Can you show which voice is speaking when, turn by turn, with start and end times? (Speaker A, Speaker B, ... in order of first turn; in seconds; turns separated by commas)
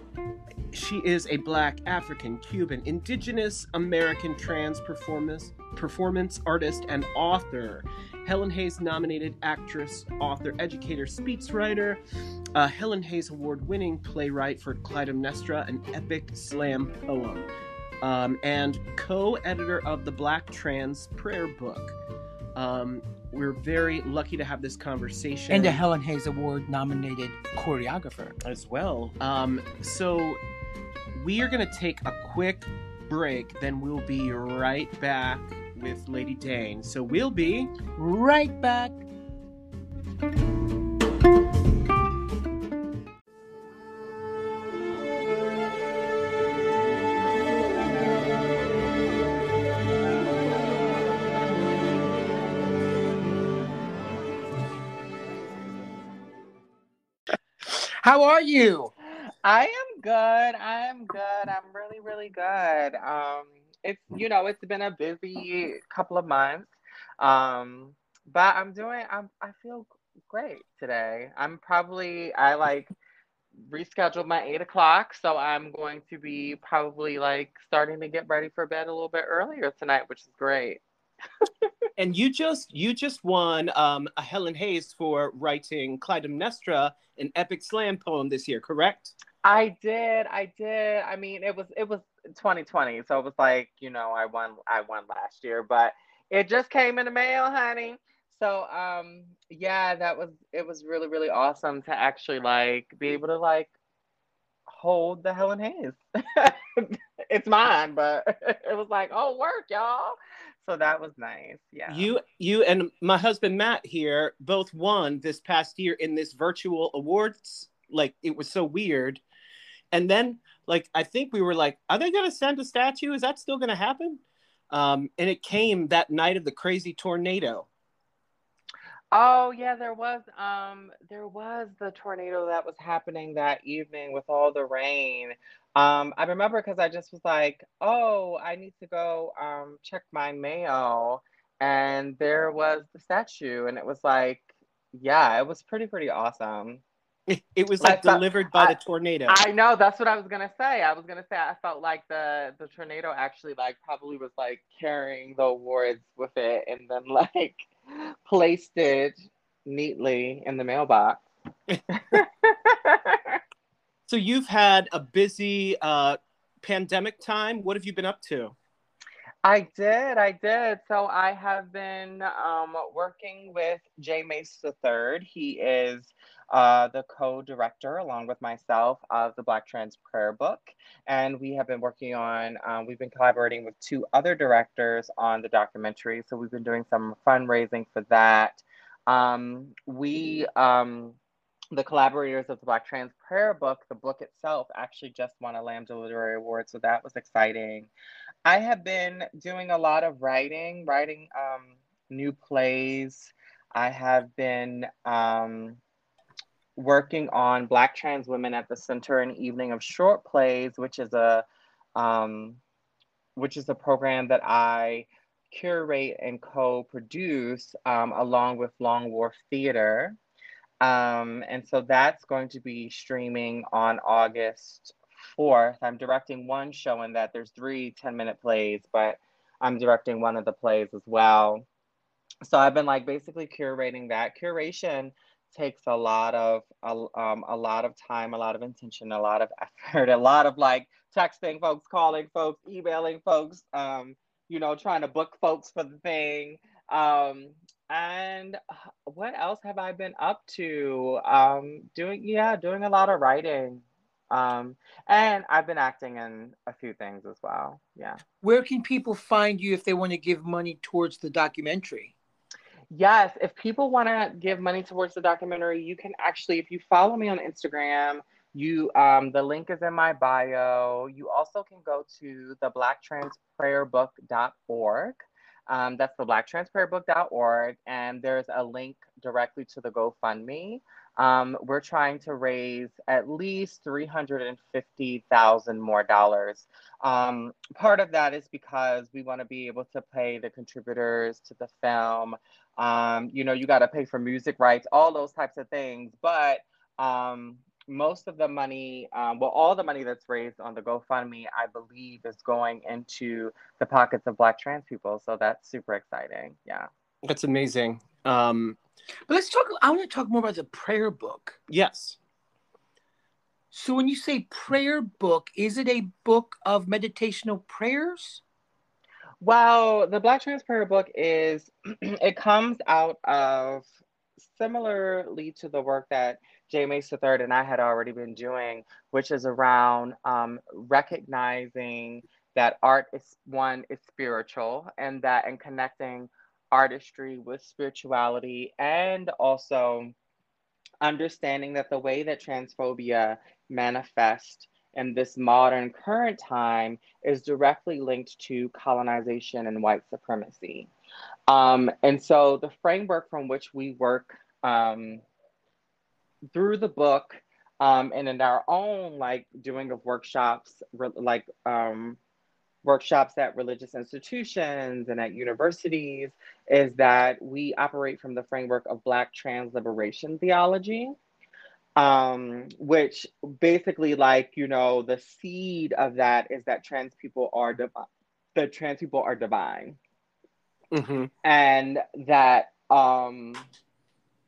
Speaker A: 0.7-12.0, Speaker A: 12.6-17.5, Speaker A: 18.0-21.9, Speaker A: 22.6-25.8, Speaker B: 25.5-28.4, Speaker A: 28.4-30.4, Speaker A: 31.1-37.7, Speaker B: 38.0-39.0, Speaker B: 57.7-58.9, Speaker C: 59.3-73.0, Speaker C: 73.7-80.8, Speaker A: 82.0-89.2, Speaker C: 89.4-103.7, Speaker C: 104.7-112.1, Speaker A: 111.9-119.2, Speaker A: 119.9-127.7, Speaker C: 129.1-146.8, Speaker A: 147.3-149.4, Speaker C: 147.8-148.8, Speaker C: 149.3-159.1, Speaker C: 159.7-161.2, Speaker C: 161.9-163.4, Speaker A: 164.1-168.6, Speaker C: 169.4-191.2, Speaker C: 191.7-197.9, Speaker C: 198.4-205.8, Speaker C: 206.8-211.4, Speaker C: 212.0-212.6, Speaker C: 213.4-220.2, Speaker C: 220.8-231.7, Speaker C: 232.4-258.2, Speaker B: 258.4-262.1, Speaker C: 262.9-306.9, Speaker A: 307.2-308.8, Speaker B: 309.3-311.6, Speaker A: 311.7-312.2, Speaker B: 313.7-318.4, Speaker C: 319.4-323.9, Speaker C: 324.4-340.1, Speaker C: 341.0-350.9, Speaker C: 351.5-355.2, Speaker C: 356.5-362.2, Speaker C: 362.8-371.2, Speaker C: 372.0-380.0, Speaker A: 380.9-381.3, Speaker C: 381.4-383.7